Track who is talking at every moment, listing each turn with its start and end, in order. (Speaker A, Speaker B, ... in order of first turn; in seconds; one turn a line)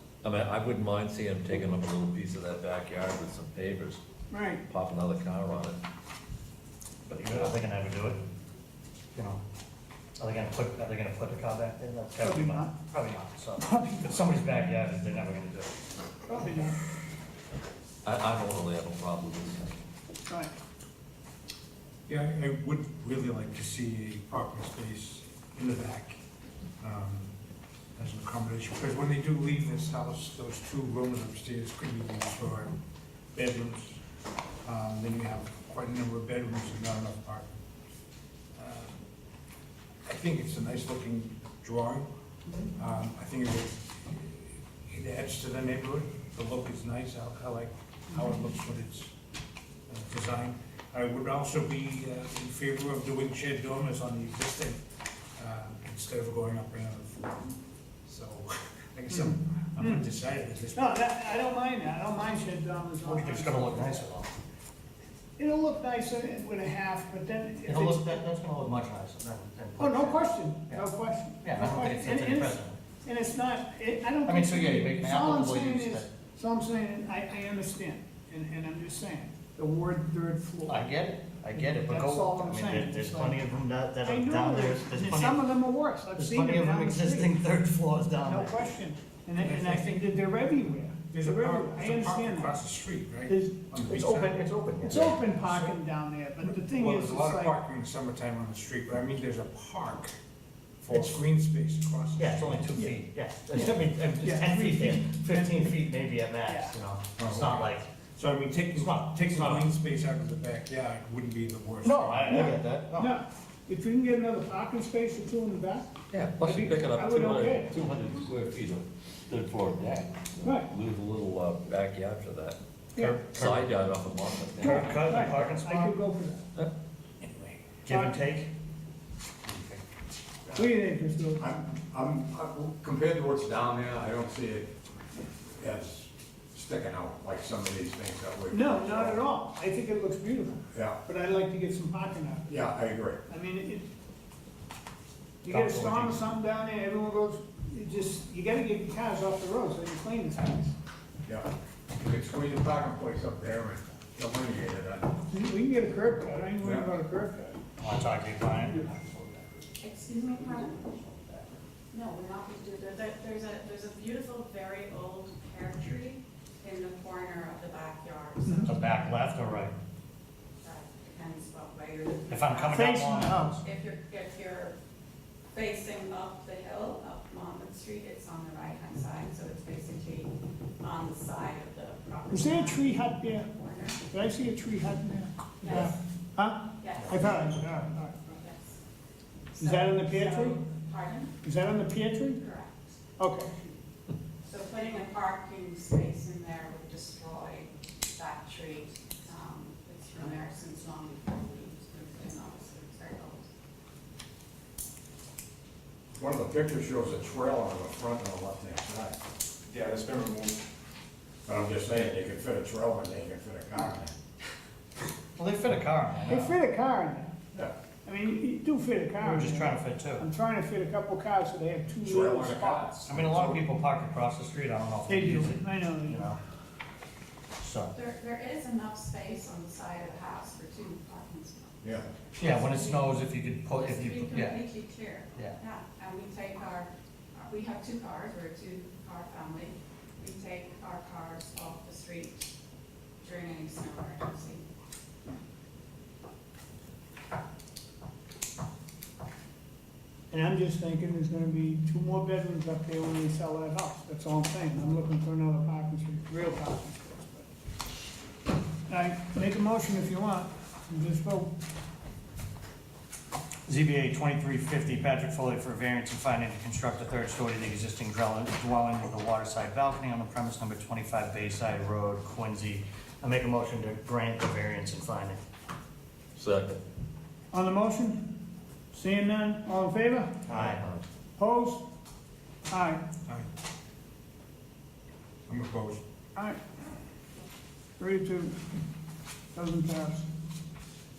Speaker A: 0.2-4.0
Speaker B: 4.3-4.6
Speaker A: 4.7-5.8
Speaker C: 7.1-8.2
Speaker C: 9.1-9.4
Speaker C: 10.2-15.7
Speaker B: 12.2-12.7
Speaker B: 13.6-14.1
Speaker B: 16.3-16.8
Speaker A: 18.0-19.7
Speaker B: 20.3-20.5
Speaker D: 22.1-26.2
Speaker D: 26.8-27.3
Speaker D: 27.9-32.7
Speaker D: 33.3-34.0
Speaker D: 34.6-37.6
Speaker D: 38.5-39.0
Speaker D: 40.0-42.1
Speaker D: 42.7-49.1
Speaker D: 49.9-54.8
Speaker D: 55.4-57.4
Speaker D: 58.0-61.0
Speaker B: 59.2-60.0
Speaker B: 60.7-64.0
Speaker C: 63.0-64.4
Speaker B: 65.4-68.2
Speaker C: 67.6-70.9
Speaker B: 69.8-80.9
Speaker C: 71.4-72.8
Speaker C: 74.2-76.1
Speaker C: 80.6-85.5
Speaker B: 81.5-83.4
Speaker B: 84.0-87.4
Speaker C: 86.1-88.7
Speaker B: 88.2-92.6
Speaker D: 89.4-90.0
Speaker D: 91.1-95.8
Speaker B: 93.3-93.5
Speaker C: 93.8-95.2
Speaker B: 94.8-97.5
Speaker D: 96.4-100.2
Speaker D: 100.8-102.8
Speaker C: 100.9-101.2
Speaker C: 102.2-107.9
Speaker B: 103.5-105.8
Speaker B: 106.5-106.8
Speaker D: 107.2-112.5
Speaker C: 108.7-109.7
Speaker C: 111.8-113.1
Speaker B: 112.3-117.8
Speaker A: 116.1-122.6
Speaker B: 120.4-120.7
Speaker B: 122.9-123.2
Speaker C: 123.0-123.7
Speaker A: 123.2-125.0
Speaker B: 124.6-126.4
Speaker C: 124.6-126.0
Speaker D: 127.2-127.6
Speaker C: 127.8-128.5
Speaker B: 127.9-128.2
Speaker B: 130.5-131.5
Speaker E: 131.4-134.7
Speaker E: 135.6-139.2
Speaker B: 138.5-143.9
Speaker E: 140.7-141.0
Speaker E: 142.5-143.2
Speaker B: 145.4-150.7
Speaker C: 145.5-146.2
Speaker E: 152.0-155.1
Speaker B: 155.3-157.6
Speaker C: 157.8-159.1
Speaker F: 159.8-160.9
Speaker F: 161.9-168.9
Speaker B: 168.4-168.7
Speaker C: 168.6-169.7
Speaker F: 170.6-172.9
Speaker C: 172.3-173.5
Speaker B: 172.7-173.6
Speaker F: 173.6-174.8
Speaker F: 175.5-184.1
Speaker B: 182.3-183.5
Speaker B: 184.1-188.4
Speaker F: 185.6-185.9
Speaker F: 186.8-187.6
Speaker F: 188.4-188.8
Speaker F: 189.6-191.4
Speaker B: 189.6-190.6
Speaker B: 191.4-192.4
Speaker F: 192.4-193.0
Speaker B: 193.2-193.5
Speaker F: 194.5-203.5
Speaker E: 206.2-209.2
Speaker E: 209.7-210.5
Speaker E: 211.4-214.1
Speaker C: 215.3-216.5
Speaker B: 216.3-217.5
Speaker B: 218.0-223.1
Speaker C: 219.2-220.2
Speaker E: 222.1-223.6
Speaker C: 223.0-226.4
Speaker B: 225.1-226.2
Speaker C: 227.6-227.9
Speaker F: 227.9-231.8
Speaker C: 232.4-234.6
Speaker F: 232.4-233.2
Speaker F: 233.7-242.6
Speaker F: 243.2-244.7
Speaker B: 250.3-257.5
Speaker B: 258.9-261.5
Speaker C: 263.6-275.4
Speaker A: 276.4-276.8
Speaker B: 277.5-280.4
Speaker C: 280.5-280.8
Speaker D: 280.5-280.8
Speaker B: 281.4-281.8
Speaker B: 282.7-283.0
Speaker D: 285.5-286.0
Speaker B: 286.3-286.6
Speaker B: 288.0-288.6
Speaker B: 289.5-290.2